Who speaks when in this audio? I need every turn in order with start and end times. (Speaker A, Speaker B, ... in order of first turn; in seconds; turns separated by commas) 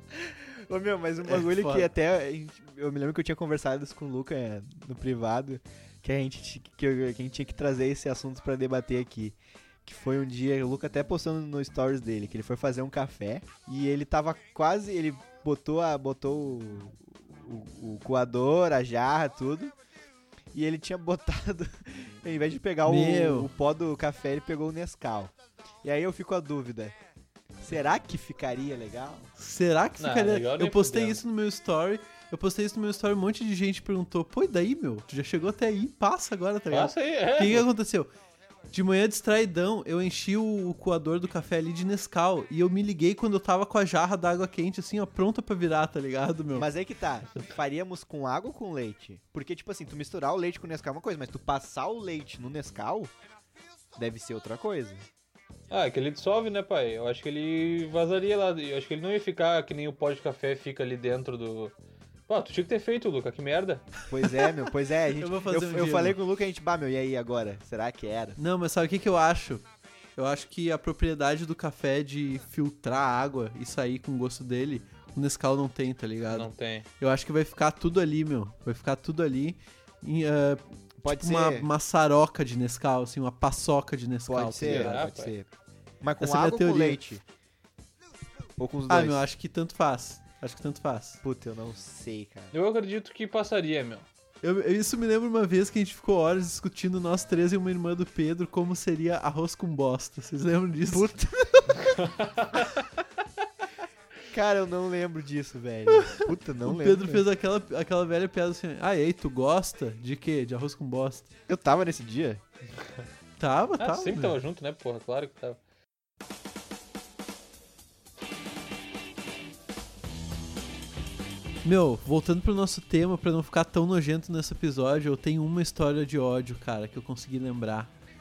Speaker A: 0.1-19.8, Speaker B: 1.2-1.9, Speaker A: 20.5-27.0, Speaker B: 22.9-23.5, Speaker A: 27.6-29.3, Speaker B: 29.4-38.1, Speaker C: 30.0-31.2, Speaker C: 36.7-37.7, Speaker B: 38.7-46.7, Speaker A: 46.6-53.1, Speaker A: 54.0-55.1, Speaker C: 55.7-61.8, Speaker C: 62.3-63.9, Speaker A: 64.1-68.4, Speaker B: 65.2-66.2, Speaker B: 68.4-69.7, Speaker B: 70.2-76.5, Speaker C: 76.3-76.9, Speaker B: 77.0-85.1, Speaker A: 81.0-81.7, Speaker A: 84.3-85.5, Speaker C: 84.6-85.3, Speaker A: 86.0-87.2, Speaker B: 86.2-87.0, Speaker A: 88.6-89.2, Speaker B: 88.9-91.2, Speaker A: 91.2-92.5, Speaker C: 92.5-94.1, Speaker B: 94.4-101.1, Speaker A: 100.9-101.8, Speaker C: 101.8-102.9, Speaker A: 104.3-107.3, Speaker B: 105.9-111.3, Speaker A: 111.5-112.4, Speaker B: 113.4-114.4, Speaker C: 113.8-115.6, Speaker B: 121.6-127.9